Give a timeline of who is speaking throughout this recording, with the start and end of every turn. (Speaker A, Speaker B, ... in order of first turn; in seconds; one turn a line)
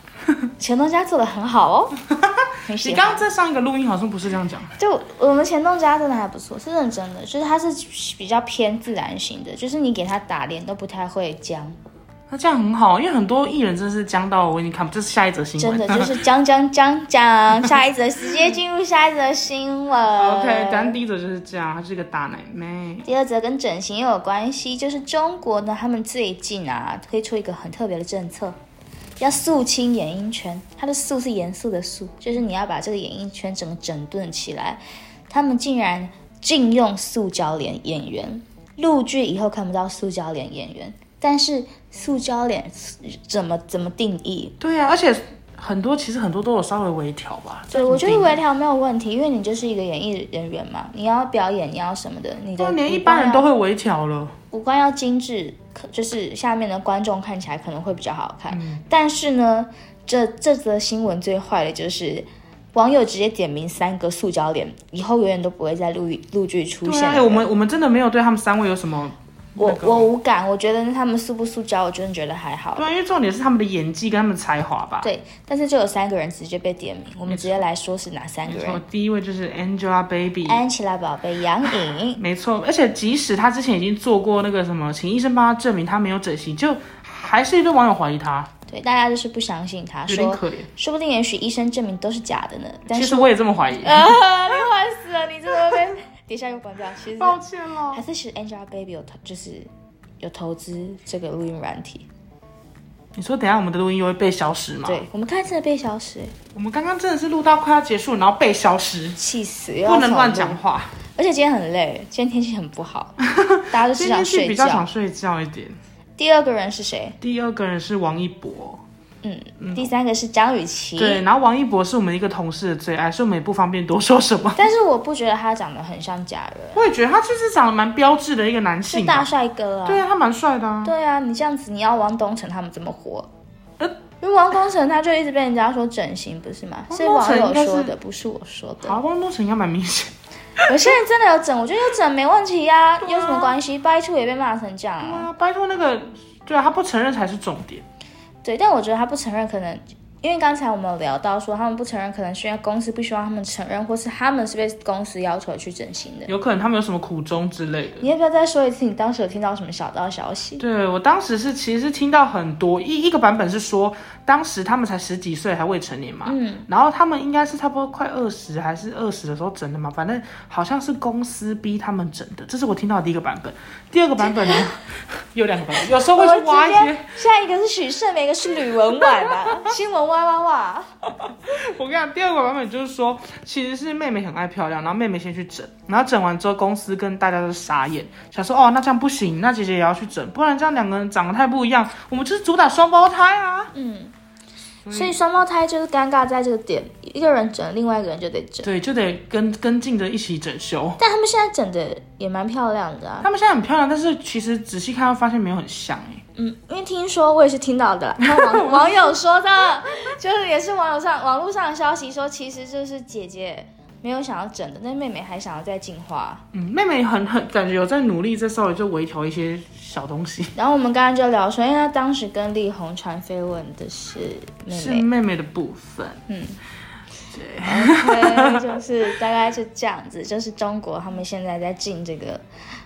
Speaker A: 0.6-2.0
Speaker B: 2.1-4.7
Speaker A: 2.6-3.2
Speaker A: 4.8-11.8
Speaker B: 12.3-16.1
Speaker A: 15.6-21.0
Speaker B: 20.1-23.1
Speaker A: 23.0-28.6
Speaker A: 29.2-44.5
Speaker B: 44.6-48.4
Speaker A: 47.7-53.5
Speaker B: 52.6-54.3
Speaker A: 54.5-67.5
Speaker B: 58.5-58.8
Speaker B: 66.8-70.1
Speaker A: 69.6-72.9
Speaker B: 72.8-75.1
Speaker A: 75.0-78.8
Speaker B: 77.2-77.6
Speaker B: 78.5-80.6
Speaker A: 80.5-82.2
Speaker B: 82.1-88.5
Speaker A: 88.7-97.4
Speaker B: 90.1-90.7
Speaker B: 92.9-94.2
Speaker B: 97.2-98.0
Speaker A: 97.9-99.7
Speaker A: 100.2-102.1
Speaker B: 103.1-105.0
Speaker A: 104.8-106.3
Speaker B: 106.5-109.2
Speaker A: 109.2-110.6
Speaker B: 109.8-111.0
Speaker A: 111.2-113.2
Speaker B: 113.2-115.8
Speaker A: 113.7-114.9
Speaker A: 116.2-117.2
Speaker B: 117.2-118.8
Speaker A: 119.2-121.2
Speaker B: 119.6-119.9
Speaker B: 121.0-124.6
Speaker A: 124.5-126.8
Speaker B: 126.7-129.3
Speaker A: 128.9-130.0
Speaker B: 129.8-130.9
Speaker A: 130.8-133.3
Speaker A: 134.2-139.0
Speaker B: 136.9-137.9
Speaker B: 138.8-140.8
Speaker A: 140.6-145.3
Speaker B: 143.0-143.6
Speaker B: 145.0-147.8
Speaker A: 148.4-156.3
Speaker B: 156.3-158.1
Speaker A: 158.0-160.6
Speaker B: 160.6-177.2
Speaker A: 166.2-166.7
Speaker A: 174.3-174.7
Speaker A: 175.8-180.9
Speaker B: 179.0-179.7
Speaker B: 181.2-193.7
Speaker A: 193.7-194.1
Speaker B: 194.8-195.2
Speaker A: 194.9-198.7
Speaker B: 198.6-201.0
Speaker A: 201.0-203.3
Speaker B: 203.2-206.2
Speaker A: 206.3-216.4
Speaker B: 208.2-209.1
Speaker B: 216.5-220.5
Speaker A: 220.6-225.1
Speaker B: 224.7-226.2
Speaker A: 226.3-226.6
Speaker B: 227.3-228.8
Speaker A: 227.6-232.4